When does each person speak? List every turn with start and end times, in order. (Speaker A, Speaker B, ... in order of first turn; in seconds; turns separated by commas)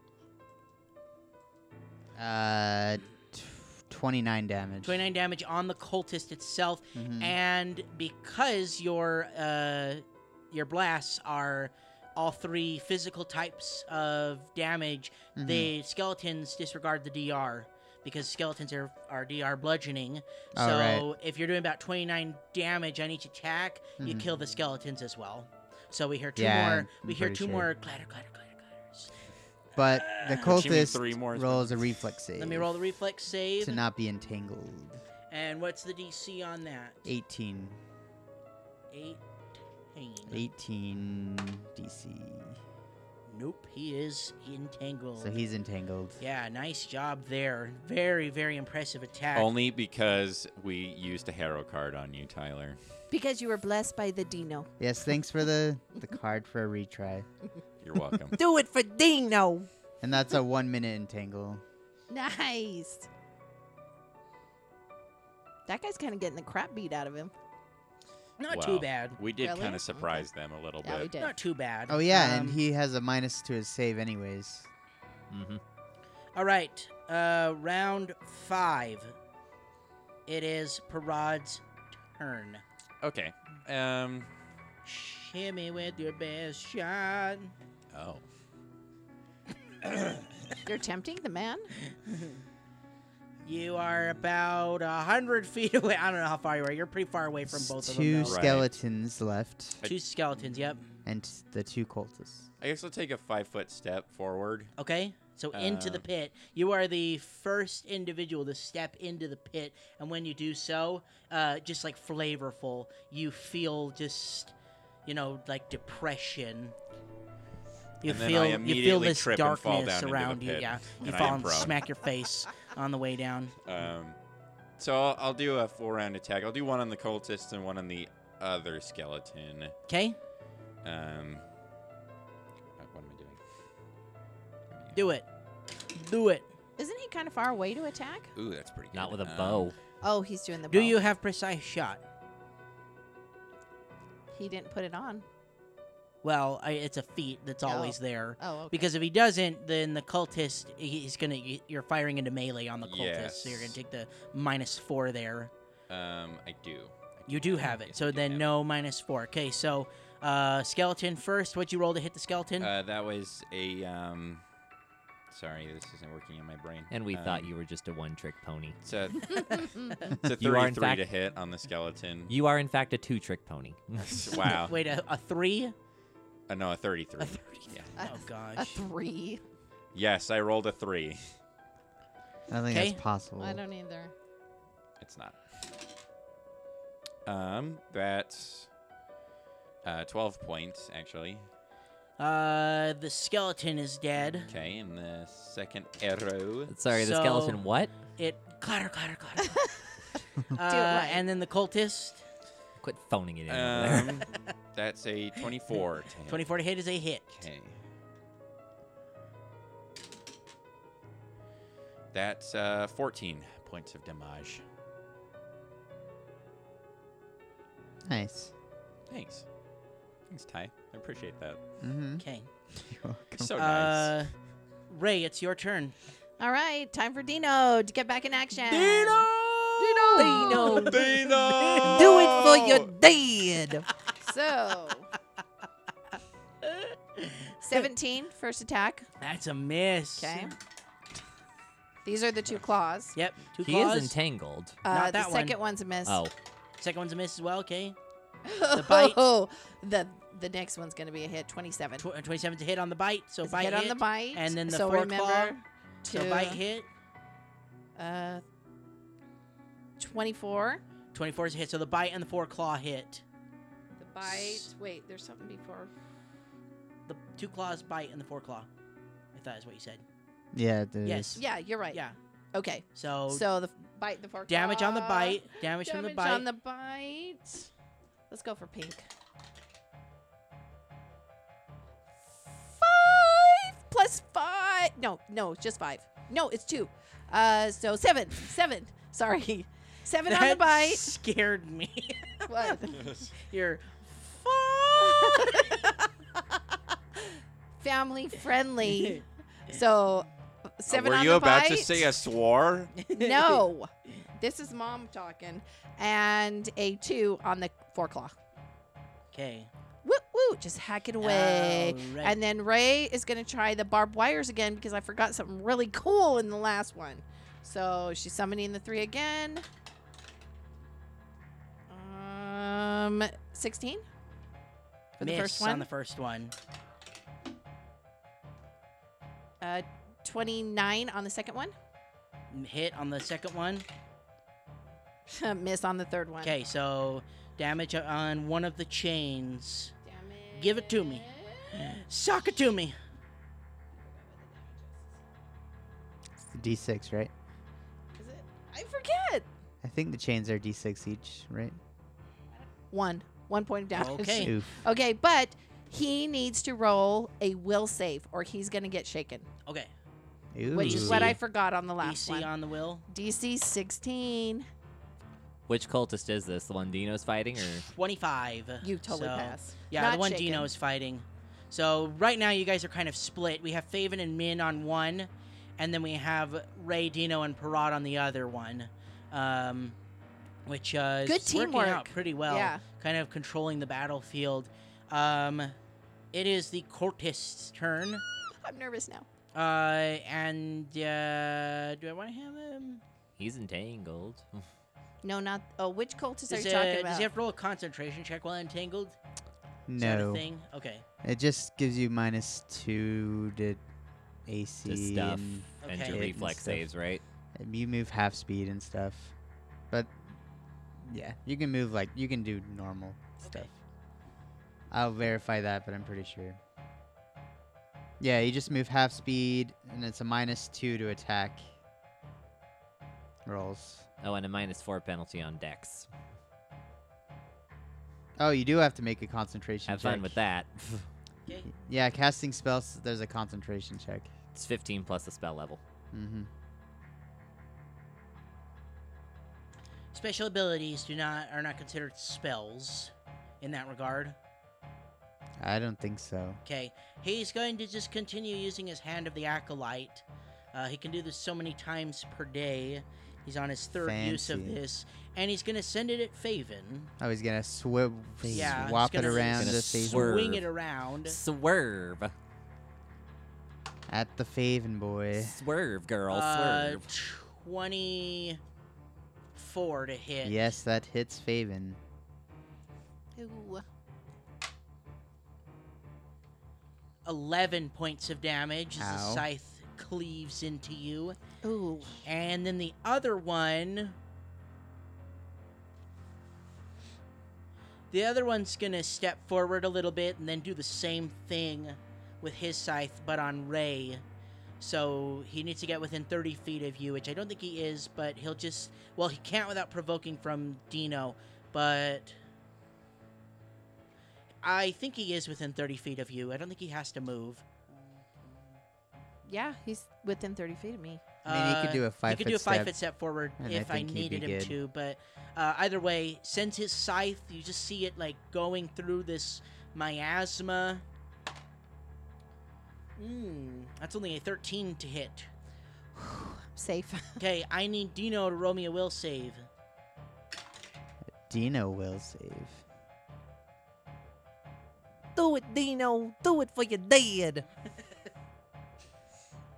Speaker A: 2.2-5.0, Speaker B: 4.8-29.1, Speaker A: 7.0-7.4, Speaker A: 15.4-15.7, Speaker A: 20.5-21.1, Speaker A: 24.0-24.3, Speaker A: 26.4-27.7, Speaker A: 29.8-32.7, Speaker B: 29.8-30.8, Speaker C: 30.4-31.8, Speaker B: 32.4-33.8, Speaker A: 33.6-35.0, Speaker B: 35.3-37.1, Speaker A: 37.0-37.8, Speaker B: 38.9-39.2, Speaker B: 39.9-40.5, Speaker A: 40.3-42.6, Speaker B: 43.3-45.4, Speaker A: 45.2-46.2, Speaker B: 46.2-49.5, Speaker C: 49.3-52.8, Speaker D: 53.1-54.7, Speaker A: 54.8-57.3, Speaker C: 57.8-58.4, Speaker D: 58.4-59.7, Speaker A: 60.0-61.6, Speaker D: 62.1-63.1, Speaker D: 65.7-67.3, Speaker B: 68.4-69.2, Speaker C: 68.5-71.1, Speaker D: 69.4-70.3, Speaker D: 70.8-71.3, Speaker B: 71.2-72.6, Speaker A: 71.9-74.7, Speaker E: 75.3-75.6, Speaker B: 76.3-79.2, Speaker B: 80.3-81.6, Speaker B: 82.2-82.6, Speaker C: 83.0-84.3, Speaker B: 84.8-87.5, Speaker C: 87.9-88.2, Speaker B: 89.9-90.2, Speaker D: 90.7-91.7, Speaker B: 92.1-92.4, Speaker B: 93.5-98.7, Speaker A: 97.5-99.8, Speaker C: 98.3-98.7, Speaker B: 99.8-100.9, Speaker A: 101.0-102.5, Speaker C: 102.6-104.7, Speaker B: 104.8-114.5, Speaker C: 105.5-106.1, Speaker B: 115.1-116.8, Speaker B: 118.0-123.5, Speaker C: 118.0-121.8, Speaker C: 123.6-124.2, Speaker C: 124.8-129.7, Speaker B: 129.9-130.2, Speaker C: 130.8-131.4, Speaker C: 132.8-133.4, Speaker C: 134.7-135.0, Speaker B: 134.9-135.3, Speaker B: 135.9-136.5, Speaker D: 136.8-138.3, Speaker C: 138.3-139.7, Speaker E: 138.9-139.8, Speaker D: 140.0-141.0, Speaker B: 140.7-142.0, Speaker D: 144.3-145.2, Speaker B: 146.2-155.5, Speaker D: 147.7-148.9, Speaker C: 152.8-153.8, Speaker C: 155.9-158.5, Speaker B: 157.3-162.7, Speaker C: 162.6-164.4, Speaker C: 165.3-167.5, Speaker E: 166.9-168.8, Speaker C: 168.8-172.3, Speaker E: 170.4-171.0, Speaker E: 172.3-174.3, Speaker C: 174.0-174.8, Speaker B: 174.5-175.8, Speaker C: 176.5-177.9, Speaker B: 177.2-178.8, Speaker D: 178.0-179.4, Speaker C: 179.9-181.2, Speaker A: 182.5-183.6, Speaker B: 182.7-183.0, Speaker D: 183.4-184.1, Speaker C: 185.0-185.4, Speaker C: 187.3-188.7, Speaker C: 189.8-191.5, Speaker B: 192.2-194.5, Speaker C: 194.5-196.7, Speaker E: 196.7-197.9, Speaker B: 196.9-197.6, Speaker B: 198.2-199.6, Speaker B: 200.5-202.2, Speaker D: 200.6-201.2, Speaker E: 202.8-204.2, Speaker C: 203.5-206.5, Speaker B: 206.3-207.3, Speaker C: 207.3-207.8, Speaker C: 212.1-214.6, Speaker A: 218.1-218.5, Speaker C: 219.1-219.5, Speaker C: 220.3-221.6, Speaker A: 221.8-223.6, Speaker B: 222.2-222.5, Speaker C: 223.4-224.2, Speaker B: 223.6-224.3, Speaker B: 224.9-225.9, Speaker D: 226.4-231.3, Speaker B: 228.7-232.3, Speaker E: 230.2-231.0, Speaker C: 230.4-232.9, Speaker E: 231.8-233.9, Speaker D: 234.2-235.1, Speaker B: 236.6-237.9, Speaker D: 237.6-239.1, Speaker B: 239.2-240.5, Speaker D: 240.2-240.5, Speaker D: 242.1-243.2, Speaker B: 243.1-244.2, Speaker E: 243.6-244.8, Speaker D: 244.8-246.2, Speaker B: 244.9-245.6, Speaker E: 246.1-246.3, Speaker B: 246.8-248.0, Speaker D: 248.5-252.1, Speaker B: 248.7-249.2, Speaker B: 252.0-256.9, Speaker D: 253.4-256.6, Speaker D: 258.0-258.4, Speaker D: 260.0-260.8, Speaker B: 261.1-263.2, Speaker D: 264.0-265.9, Speaker B: 264.2-264.7, Speaker B: 267.1-268.7, Speaker B: 269.4-270.0, Speaker A: 270.5-271.4, Speaker B: 271.0-272.2, Speaker D: 271.4-272.0, Speaker D: 272.5-277.7, Speaker B: 272.9-273.5, Speaker B: 274.5-276.5, Speaker D: 278.3-279.1, Speaker D: 282.7-291.1, Speaker B: 290.3-296.0, Speaker D: 292.5-293.2, Speaker C: 293.0-293.3, Speaker D: 295.0-295.9, Speaker D: 297.8-302.1, Speaker C: 300.9-303.1, Speaker B: 303.0-303.6, Speaker D: 303.1-308.4, Speaker B: 309.3-309.7, Speaker D: 310.0-319.6, Speaker B: 311.2-312.4, Speaker D: 321.9-324.0, Speaker D: 325.2-325.9, Speaker B: 325.2-326.5, Speaker D: 329.6-331.8, Speaker B: 332.5-333.9, Speaker D: 335.3-336.5, Speaker B: 336.4-339.9, Speaker D: 340.0-341.9, Speaker B: 340.5-343.0, Speaker D: 344.0-345.1, Speaker A: 346.5-347.3, Speaker D: 348.1-349.5, Speaker A: 349.8-351.8, Speaker D: 352.9-359.5, Speaker B: 353.9-354.6, Speaker A: 354.4-354.8, Speaker A: 360.5-361.4, Speaker D: 360.7-362.5, Speaker B: 360.8-361.4, Speaker B: 362.0-363.1, Speaker D: 363.1-364.7, Speaker E: 365.7-367.9, Speaker B: 367.8-380.0, Speaker D: 368.8-370.7, Speaker B: 380.7-385.8, Speaker D: 381.3-382.8, Speaker B: 386.3-388.2, Speaker D: 388.6-389.3, Speaker B: 389.5-393.0, Speaker E: 393.4-394.7, Speaker D: 395.2-397.3, Speaker B: 396.5-399.2, Speaker A: 399.9-400.4, Speaker B: 400.0-401.0, Speaker A: 401.2-403.8, Speaker A: 404.5-406.9, Speaker E: 404.9-407.2, Speaker B: 405.8-406.2, Speaker A: 407.6-409.3, Speaker A: 411.0-413.8, Speaker B: 413.4-413.7, Speaker A: 414.9-416.6, Speaker A: 418.2-421.7, Speaker A: 423.4-424.1, Speaker E: 424.2-426.1, Speaker A: 428.4-430.4, Speaker E: 429.9-431.1, Speaker A: 431.7-434.3, Speaker E: 434.5-435.8, Speaker A: 436.1-436.5, Speaker B: 440.1-444.4, Speaker A: 445.6-446.6, Speaker B: 446.6-457.1, Speaker A: 454.0-454.8, Speaker A: 457.2-460.5, Speaker B: 458.5-461.4, Speaker E: 458.5-460.7, Speaker E: 461.2-462.3, Speaker A: 464.1-465.6, Speaker E: 465.4-467.1, Speaker B: 466.3-468.6, Speaker B: 469.6-470.6, Speaker A: 470.4-472.0, Speaker D: 473.4-473.9, Speaker B: 477.2-481.4, Speaker A: 479.0-479.5, Speaker D: 481.6-482.2, Speaker B: 482.2-484.2, Speaker B: 488.1-494.2, Speaker B: 494.8-502.4, Speaker B: 504.6-507.7, Speaker D: 509.5-511.2, Speaker B: 511.4-521.0, Speaker A: 511.5-513.0, Speaker A: 513.6-514.8, Speaker B: 523.2-525.5, Speaker D: 526.1-527.4, Speaker B: 527.4-529.7, Speaker A: 531.4-532.8, Speaker D: 535.4-537.6, Speaker E: 537.0-537.4